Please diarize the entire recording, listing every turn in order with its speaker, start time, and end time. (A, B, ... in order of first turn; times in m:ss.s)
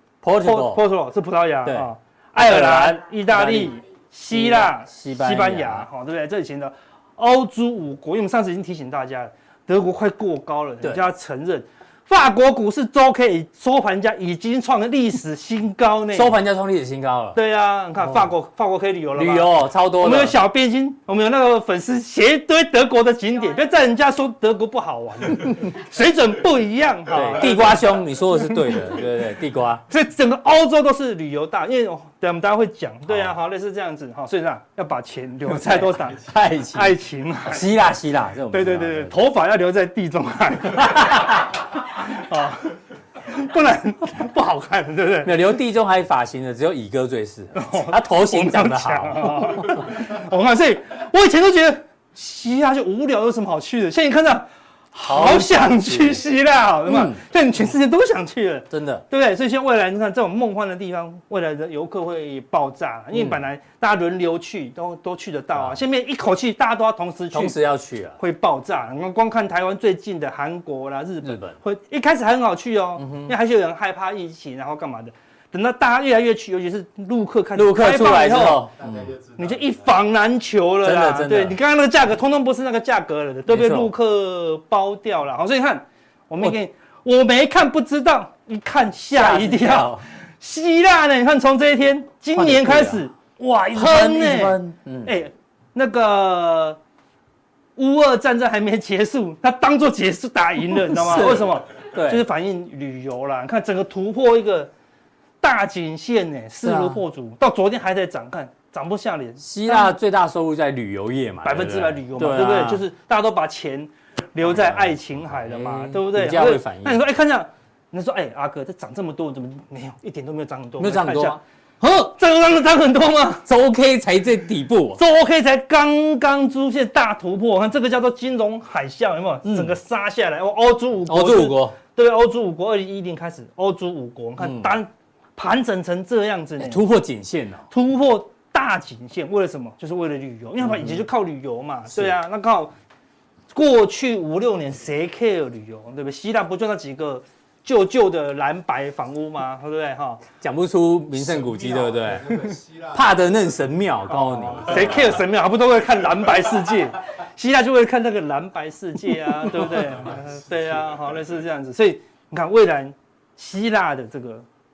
0:00.2-0:00.8 A
0:00.4-0:16.4 B
0:01.6-0:03.8 A
0:04.3-0:05.9 A
0:10.8-0:11.1 A
0:16.1-0:17.4 A
0:17.3-0:28.0 B
0:18.0-0:18.3 A
0:19.1-0:20.4 A
0:27.1-0:29.8 A
0:29.9-0:36.2 B
0:33.1-0:33.3 A
0:35.5-0:39.2 A
0:36.7-0:37.7 B
0:38.5-0:45.3 B
0:40.8-0:41.4 A
0:45.2-0:49.9 A
0:47.5-1:07.6 B
0:55.0-0:56.2 A
0:56.8-0:57.2 A
0:58.7-0:59.0 A
1:03.1-1:03.4 A
1:07.3-1:08.2 A
1:08.2-1:18.6 B
1:11.2-1:11.6 A
1:13.0-1:13.3 A
1:17.5-1:19.1 A
1:18.3-1:20.1 C
1:19.4-1:33.2 B
1:20.8-1:21.6 A
1:23.5-1:23.9 A
1:29.1-1:30.0 A
1:32.3-1:35.1 A
1:33.7-1:36.8 B
1:37.8-1:44.7 B
1:40.9-1:42.3 A
1:45.4-1:49.9 B
1:46.6-1:47.0 A
1:49.4-1:52.8 A
1:51.4-2:03.4 B
1:54.4-1:57.0 A
2:00.8-2:01.4 A
2:03.4-2:05.0 A
2:05.0-2:16.8 B
2:09.4-2:09.7 A
2:11.1-2:11.8 A
2:14.4-2:14.8 A
2:16.6-2:17.6 A
2:17.7-2:22.7 B
2:20.6-2:21.0 A
2:23.5-2:30.2 B
2:30.4-2:35.2 A
2:31.1-2:33.7 C
2:34.1-2:44.4 B
2:34.5-2:35.0 C